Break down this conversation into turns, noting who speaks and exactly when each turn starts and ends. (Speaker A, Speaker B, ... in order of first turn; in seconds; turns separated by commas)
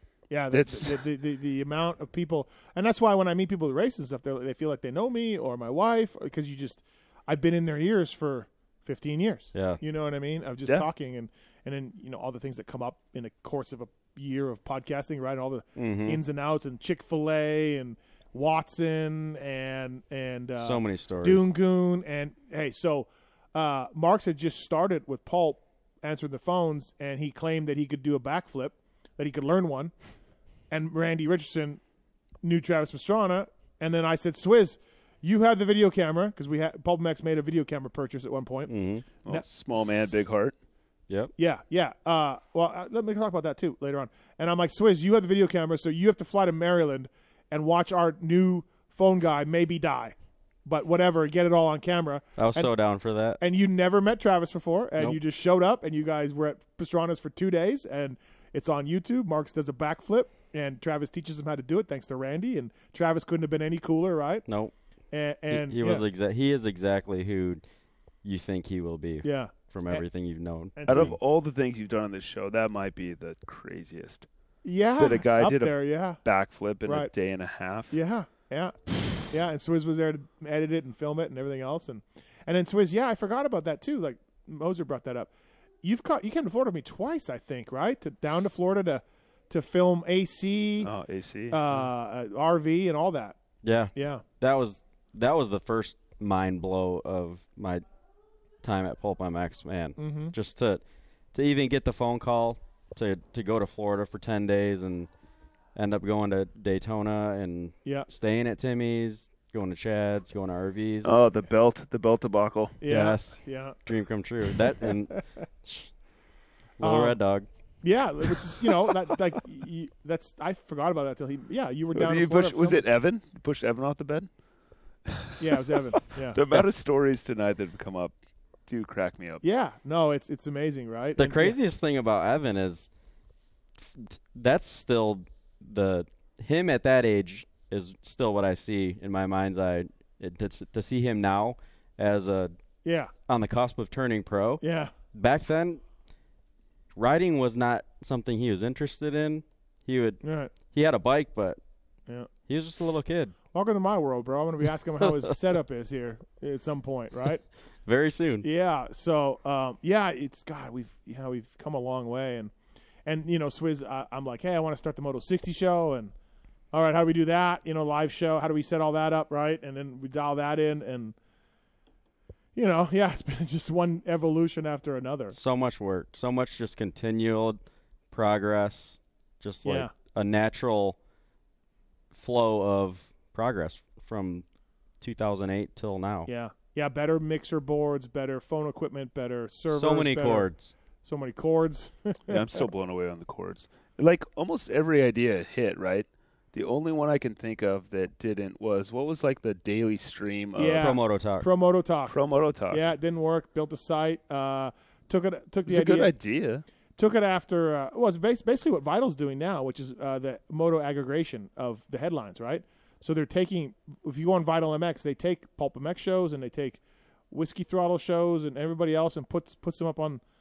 Speaker A: 0.3-29.9, Speaker B: 0.5-1.0, Speaker C: 9.5-9.8, Speaker C: 15.8-16.2, Speaker C: 20.6-21.5, Speaker A: 30.7-31.8, Speaker A: 32.4-40.2, Speaker C: 38.7-39.2, Speaker B: 39.2-40.5, Speaker A: 41.4-52.8, Speaker C: 52.4-53.4, Speaker A: 53.4-64.5, Speaker C: 64.5-64.7, Speaker A: 65.1-66.0, Speaker C: 65.5-67.6, Speaker C: 68.2-71.2, Speaker A: 69.2-70.1, Speaker A: 70.7-71.2, Speaker B: 70.9-74.3, Speaker A: 74.6-85.3, Speaker B: 75.0-78.0, Speaker A: 85.8-93.4, Speaker B: 90.8-91.8, Speaker C: 93.6-97.8, Speaker A: 93.9-94.2, Speaker C: 98.6-105.1, Speaker A: 100.0-100.3, Speaker C: 105.8-111.2, Speaker B: 111.0-113.1, Speaker A: 112.8-115.4, Speaker C: 112.9-116.0, Speaker C: 116.8-117.5, Speaker A: 116.8-122.8, Speaker B: 121.9-124.4, Speaker A: 125.4-126.4, Speaker B: 126.2-129.4, Speaker A: 129.4-131.6, Speaker C: 131.2-132.9, Speaker C: 133.8-142.5, Speaker A: 142.8-143.1, Speaker C: 143.3-145.8, Speaker A: 144.6-144.9, Speaker C: 146.9-151.6, Speaker A: 150.2-150.5, Speaker C: 152.5-153.3, Speaker A: 153.5-157.4, Speaker C: 157.8-158.5, Speaker A: 158.4-162.5, Speaker A: 163.1-166.1, Speaker A: 166.7-171.2, Speaker A: 172.6-175.4, Speaker C: 175.3-181.0, Speaker A: 179.7-179.9, Speaker C: 182.1-184.4, Speaker C: 185.0-186.3, Speaker A: 186.3-190.5, Speaker C: 189.7-190.7, Speaker A: 191.0-192.6, Speaker B: 192.3-201.0, Speaker A: 200.6-206.3, Speaker C: 200.8-201.5, Speaker B: 202.1-202.8, Speaker B: 205.7-206.7, Speaker A: 207.0-220.2